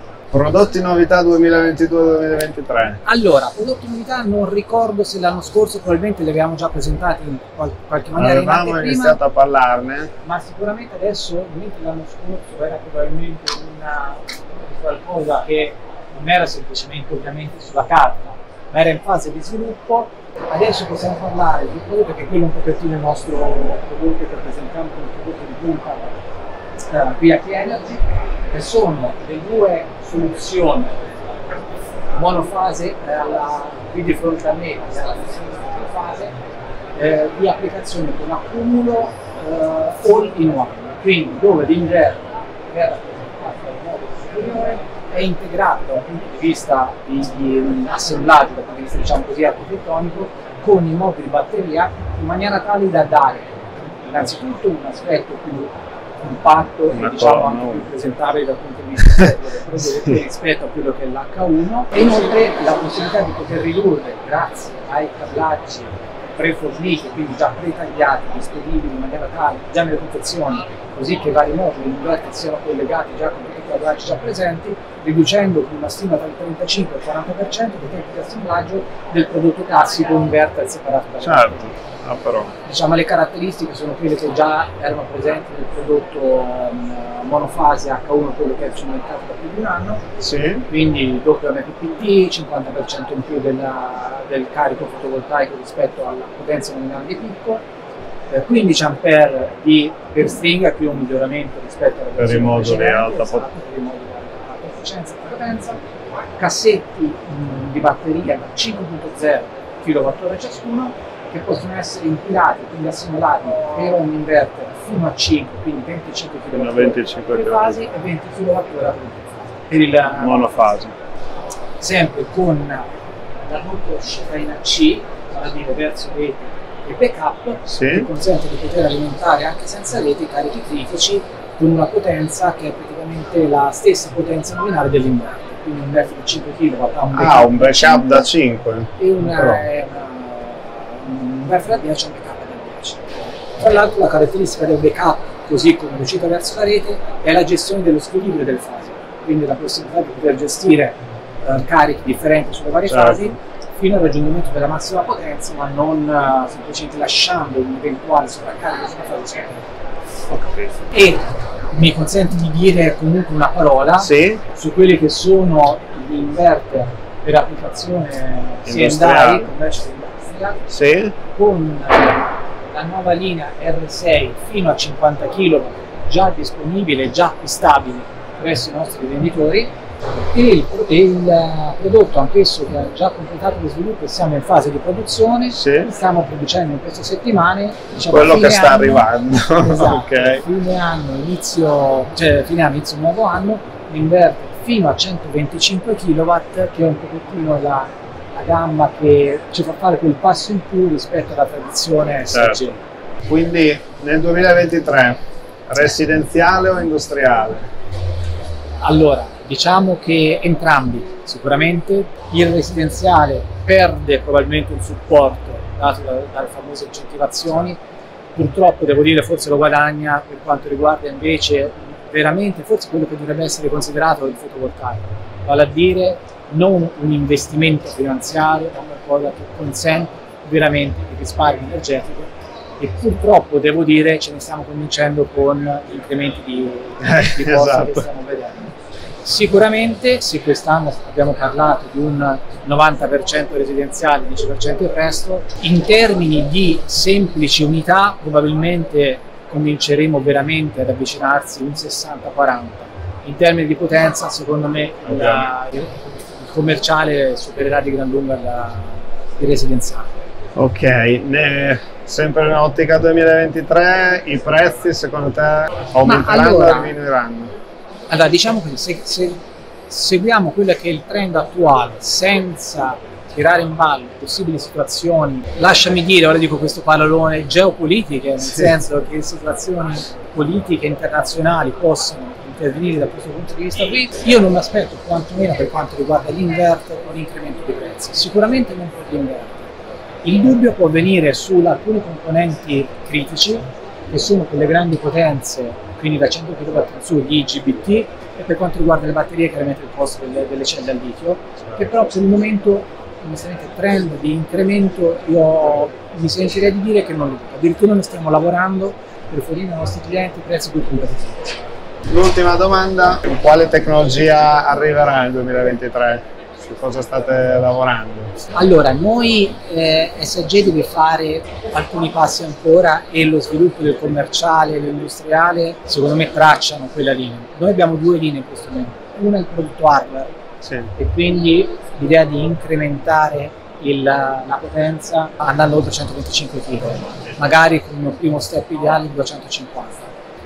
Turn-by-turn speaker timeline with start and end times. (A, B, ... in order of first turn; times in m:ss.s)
0:00.3-0:03.0 A
0:03.1-0:09.2 B
0:08.2-0:10.1 A
0:10.2-0:26.1 B
0:26.9-0:31.0 B
0:32.2-0:36.4 B
0:37.0-1:21.7 B
0:56.9-0:57.9 A
1:21.2-1:22.5 A
1:22.6-1:30.0 B
1:30.2-1:30.6 A
1:30.7-1:37.6 B
1:38.3-1:45.8 B
1:42.2-1:43.4 A
1:46.4-2:00.6 B
1:56.5-1:57.8 A
2:00.2-2:00.9 A
2:01.8-2:02.9 B
2:03.5-2:18.3 B
2:07.7-2:08.1 A
2:17.1-2:19.6 A
2:19.0-2:39.6 B
2:32.9-2:33.3 A
2:40.3-2:40.8 A
2:40.9-2:50.6 B
2:44.0-2:44.4 A
2:48.7-2:49.5 A
2:50.7-2:51.1 A
2:51.2-2:59.7 B
3:00.3-3:22.8 B
3:05.5-3:05.9 A
3:08.1-3:10.4 A
3:22.3-3:22.7 A
3:23.3-3:27.7 A
3:28.8-3:37.8 B
3:38.4-4:20.1 B
3:57.0-3:58.0 A
4:15.0-4:15.5 A
4:20.6-4:27.5 A
4:26.0-4:27.0 B
4:28.1-4:49.7 B
4:50.2-5:11.6 B
5:12.1-5:18.4 A
5:18.5-5:30.3 B
5:30.6-5:30.9 A
5:31.0-5:40.1 B